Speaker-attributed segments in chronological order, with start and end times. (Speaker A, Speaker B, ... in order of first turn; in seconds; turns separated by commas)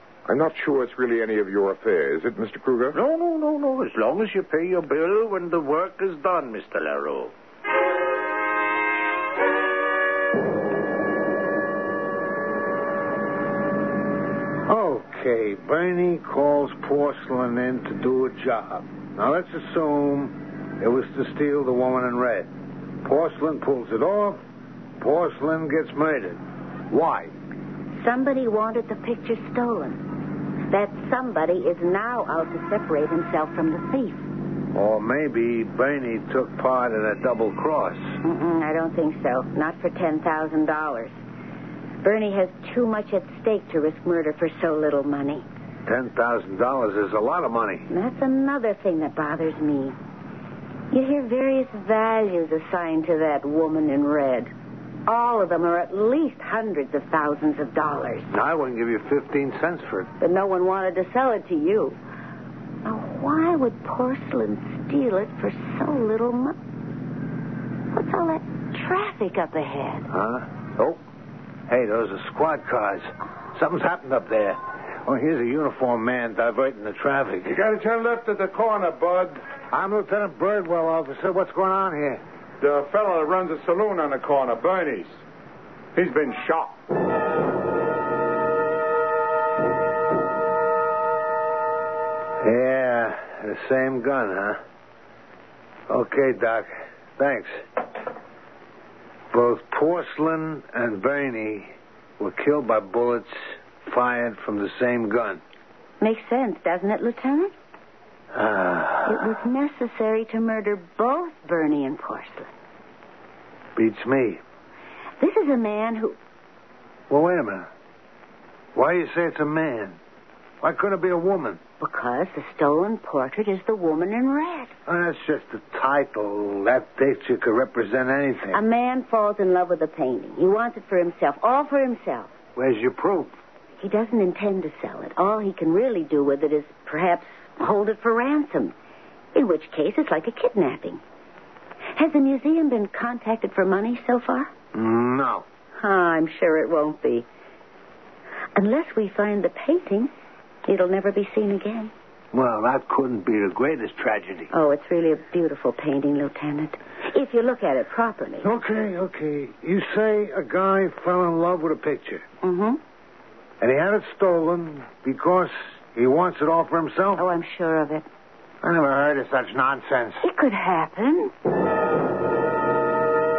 Speaker A: 0.3-3.0, Speaker B: 2.9-7.3, Speaker C: 14.7-22.5, Speaker C: 23.0-24.4, Speaker C: 25.0-27.3, Speaker D: 28.0-30.0, Speaker D: 30.7-34.2, Speaker C: 34.7-38.1, Speaker D: 38.2-41.1, Speaker D: 42.0-45.5, Speaker C: 45.9-47.9, Speaker D: 47.9-50.0, Speaker D: 50.9-54.5, Speaker D: 55.0-58.3, Speaker C: 58.3-60.1, Speaker D: 60.2-62.0, Speaker D: 62.8-66.6, Speaker D: 67.9-70.1, Speaker C: 70.1-71.0, Speaker C: 71.7-77.5, Speaker E: 77.5-79.4, Speaker C: 79.7-82.2, Speaker E: 82.6-85.2, Speaker E: 85.9-86.8, Speaker C: 92.4-94.6, Speaker C: 95.9-97.5, Speaker C: 99.3-105.4, Speaker D: 106.0-107.5, Speaker C: 108.3-109.3, Speaker D: 109.0-112.5, Speaker C: 113.8-114.4, Speaker D: 115.2-116.2, Speaker C: 117.1-117.7, Speaker C: 118.7-120.0, Speaker C: 120.6-121.6, Speaker D: 121.8-124.7, Speaker C: 124.9-128.6, Speaker D: 128.5-132.3, Speaker C: 132.6-133.3, Speaker D: 133.8-138.7, Speaker D: 139.3-141.0, Speaker D: 141.9-144.5, Speaker C: 144.7-145.4, Speaker D: 145.8-147.2, Speaker D: 148.5-150.1, Speaker D: 150.7-151.9, Speaker C: 152.3-154.5, Speaker D: 154.5-158.5, Speaker C: 158.4-162.2, Speaker D: 162.4-162.8, Speaker C: 163.6-167.2, Speaker D: 167.1-168.1, Speaker C: 168.6-170.2, Speaker D: 170.2-171.3